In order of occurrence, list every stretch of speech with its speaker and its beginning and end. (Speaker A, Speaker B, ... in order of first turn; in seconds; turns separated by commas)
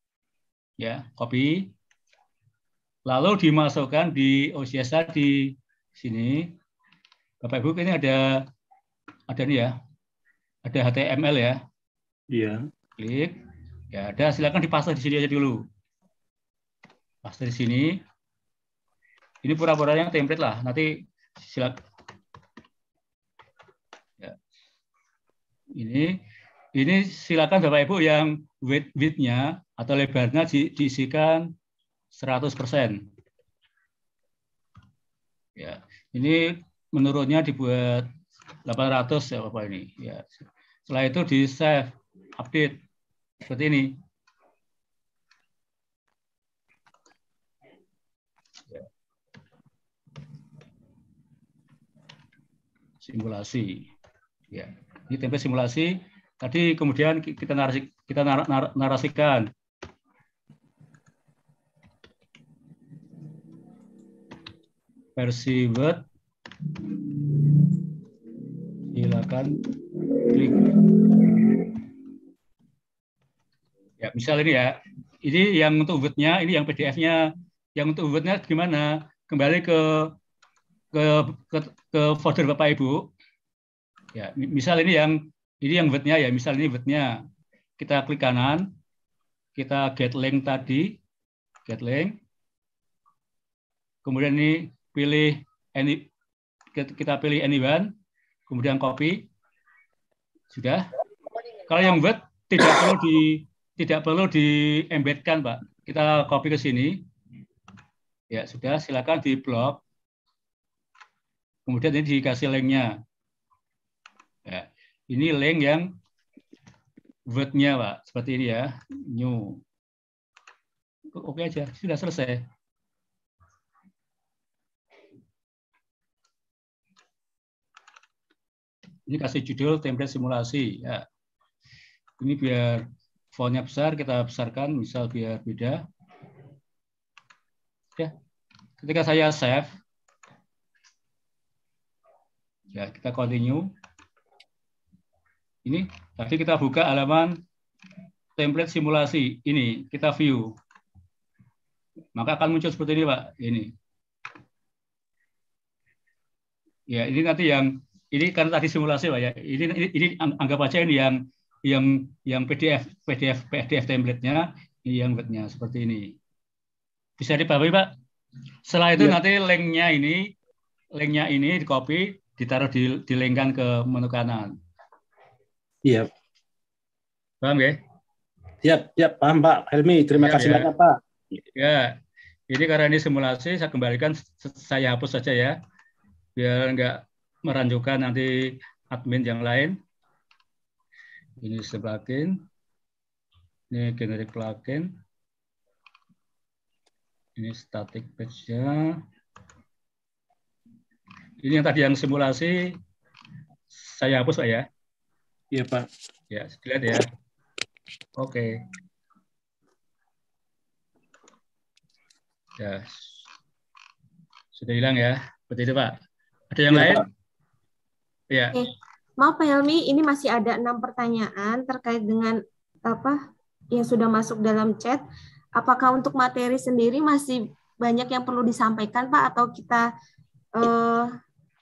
Speaker A: 0.8-1.7, Speaker A: 3.1-6.5, Speaker A: 7.4-8.5, Speaker A: 9.3-9.8, Speaker A: 10.7-11.6, Speaker B: 12.3-12.6, Speaker A: 13.0-13.4, Speaker A: 13.9-15.6, Speaker A: 17.2-18.0, Speaker A: 19.4-21.8, Speaker A: 25.7-26.2, Speaker A: 26.7-31.5, Speaker A: 32.1-33.0, Speaker A: 35.6-38.1, Speaker A: 38.7-42.8, Speaker A: 43.4-44.0, Speaker A: 53.0-53.9, Speaker A: 54.5-59.5, Speaker A: 65.2-66.0, Speaker A: 68.9-69.7, Speaker A: 70.3-70.9, Speaker A: 74.0-80.1, Speaker A: 80.9-83.1, Speaker A: 84.1-87.2, Speaker A: 87.8-88.7, Speaker A: 89.6-91.0, Speaker A: 91.7-92.2, Speaker A: 94.0-96.1, Speaker A: 96.7-97.9, Speaker A: 98.5-99.3, Speaker A: 100.5-100.9, Speaker A: 101.7-107.0, Speaker A: 108.3-109.8, Speaker A: 111.7-112.9, Speaker A: 114.5-116.0, Speaker A: 117.3-119.6, Speaker A: 121.1-122.5, Speaker A: 129.1-131.1, Speaker A: 132.2-135.8, Speaker A: 138.8-139.8, Speaker A: 142.7-143.7, Speaker A: 145.7-147.4, Speaker A: 148.4-150.5, Speaker A: 152.2-153.7, Speaker A: 156.9-166.2, Speaker A: 167.2-167.9, Speaker A: 168.7-170.3, Speaker A: 170.9-174.6, Speaker B: 175.8-176.1, Speaker A: 177.4-177.8, Speaker B: 178.6-181.0, Speaker A: 180.2-180.7, Speaker A: 181.5-185.6, Speaker A: 186.4-189.8, Speaker A: 191.4-192.4, Speaker A: 193.7-194.9, Speaker A: 197.4-199.0, Speaker A: 201.4-202.8, Speaker A: 203.7-204.7, Speaker B: 205.5-205.9, Speaker A: 206.3-207.1, Speaker A: 208.2-208.6, Speaker A: 212.6-213.2, Speaker A: 214.6-216.0, Speaker A: 216.5-217.1, Speaker B: 216.7-217.0, Speaker A: 218.3-218.6, Speaker C: 219.2-223.2, Speaker C: 223.7-225.0, Speaker C: 225.6-229.8, Speaker C: 230.6-231.1